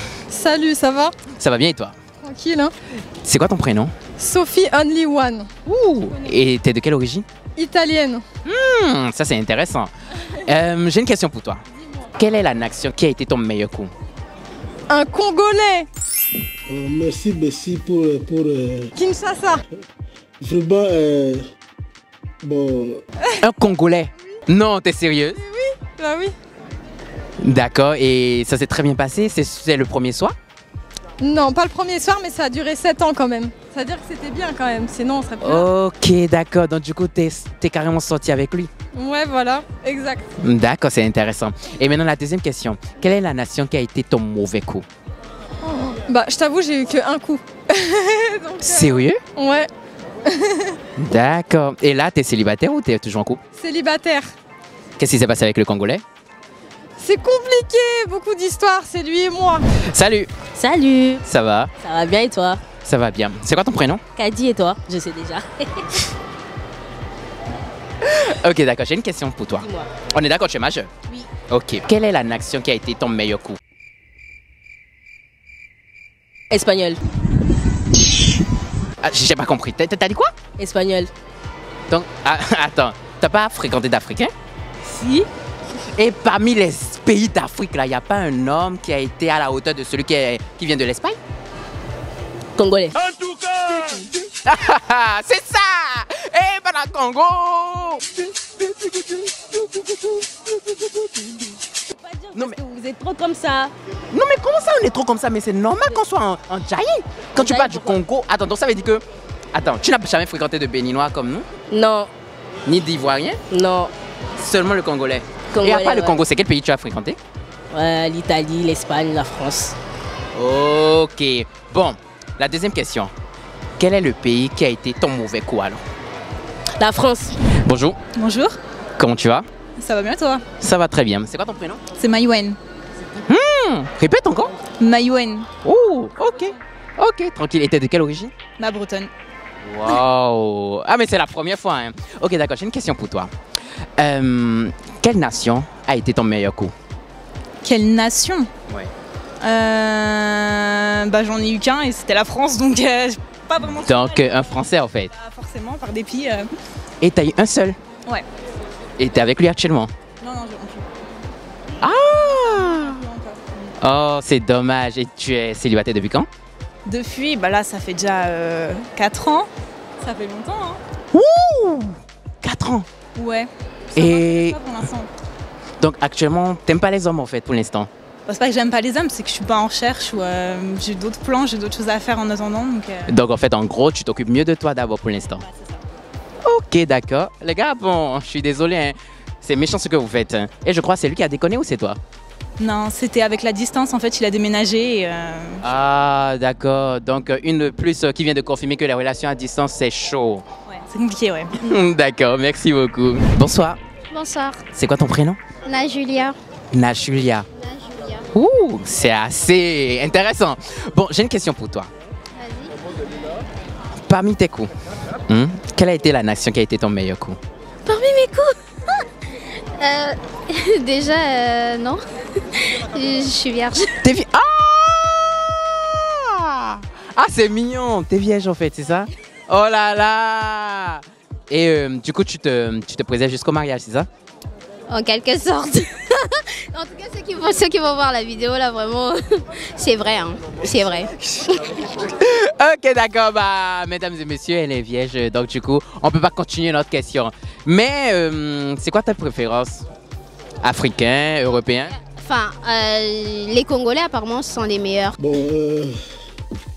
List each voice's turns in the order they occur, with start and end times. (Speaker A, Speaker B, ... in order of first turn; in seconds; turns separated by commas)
Speaker A: 0.3-1.1, Speaker B: 1.3-2.0, Speaker A: 2.2-2.7, Speaker B: 3.2-3.9, Speaker A: 4.2-5.5, Speaker B: 5.7-7.3, Speaker A: 7.6-8.2, Speaker B: 8.4-11.6, Speaker B: 12.1-13.9, Speaker A: 14.9-15.8, Speaker C: 16.7-18.9, Speaker A: 19.0-19.6, Speaker C: 20.4-21.5, Speaker C: 22.4-23.0, Speaker B: 23.4-25.4, Speaker A: 25.9-26.3, Speaker B: 27.4-30.4, Speaker A: 31.2-35.6, Speaker B: 35.4-38.7, Speaker A: 39.0-40.2, Speaker B: 40.4-44.9, Speaker A: 45.9-47.4, Speaker A: 48.0-48.8, Speaker B: 48.6-49.2, Speaker A: 49.4-49.7, Speaker B: 51.0-53.4, Speaker A: 53.6-54.2, Speaker B: 55.0-56.0, Speaker A: 57.0-59.6, Speaker B: 59.9-60.3, Speaker D: 60.6-61.2, Speaker B: 61.2-61.7, Speaker D: 61.8-62.6, Speaker B: 62.9-64.0, Speaker D: 64.2-65.8, Speaker B: 68.0-70.9, Speaker D: 69.6-69.9, Speaker B: 71.5-73.6, Speaker D: 76.5-77.0, Speaker B: 79.0-80.3, Speaker D: 80.6-81.1, Speaker B: 81.9-84.3, Speaker D: 84.9-85.3, Speaker B: 86.0-91.2, Speaker D: 92.6-93.0, Speaker D: 93.6-94.0, Speaker B: 94.4-99.6, Speaker B: 100.2-100.5, Speaker D: 101.9-103.7, Speaker B: 104.1-111.5, Speaker D: 107.3-108.0, Speaker D: 111.7-112.1, Speaker B: 112.7-113.4, Speaker D: 113.5-113.9, Speaker B: 114.4-117.2, Speaker D: 115.5-116.2, Speaker D: 117.7-119.8, Speaker B: 120.3-123.1, Speaker B: 123.8-125.8, Speaker D: 126.8-127.4, Speaker B: 127.6-128.0, Speaker E: 128.2-128.6, Speaker B: 129.0-129.5, Speaker E: 129.8-130.4, Speaker B: 130.6-131.8, Speaker E: 132.0-132.6, Speaker B: 133.3-134.5, Speaker E: 134.8-135.5, Speaker B: 135.6-138.3, Speaker E: 138.6-139.1, Speaker B: 139.6-143.3, Speaker B: 144.0-146.7, Speaker E: 147.6-148.5, Speaker E: 149.4-154.4, Speaker B: 153.8-155.1, Speaker E: 155.1-156.5, Speaker B: 157.0-157.8, Speaker B: 159.0-159.9, Speaker E: 160.2-160.8, Speaker B: 161.8-163.0, Speaker E: 162.1-163.7, Speaker B: 163.8-166.3, Speaker E: 166.9-169.5, Speaker E: 170.0-170.8, Speaker B: 171.1-172.9, Speaker E: 173.2-175.1, Speaker B: 174.0-174.6, Speaker B: 175.8-177.9, Speaker E: 178.3-183.2, Speaker B: 183.1-185.4, Speaker B: 186.4-192.0, Speaker E: 192.6-195.6, Speaker B: 195.6-200.4, Speaker E: 200.7-201.5, Speaker B: 201.6-203.8, Speaker F: 204.1-204.7, Speaker B: 204.7-205.4, Speaker F: 205.7-206.4, Speaker B: 206.7-207.5, Speaker F: 207.6-208.3, Speaker B: 208.3-211.9, Speaker F: 212.4-212.7, Speaker B: 214.0-214.7, Speaker B: 215.3-217.4, Speaker F: 217.9-219.0, Speaker F: 219.6-222.0, Speaker F: 222.6-223.9, Speaker B: 224.0-234.1, Speaker F: 234.9-241.1, Speaker B: 242.1-249.9, Speaker B: 250.6-252.0, Speaker F: 252.0-255.2, Speaker C: 255.2-256.0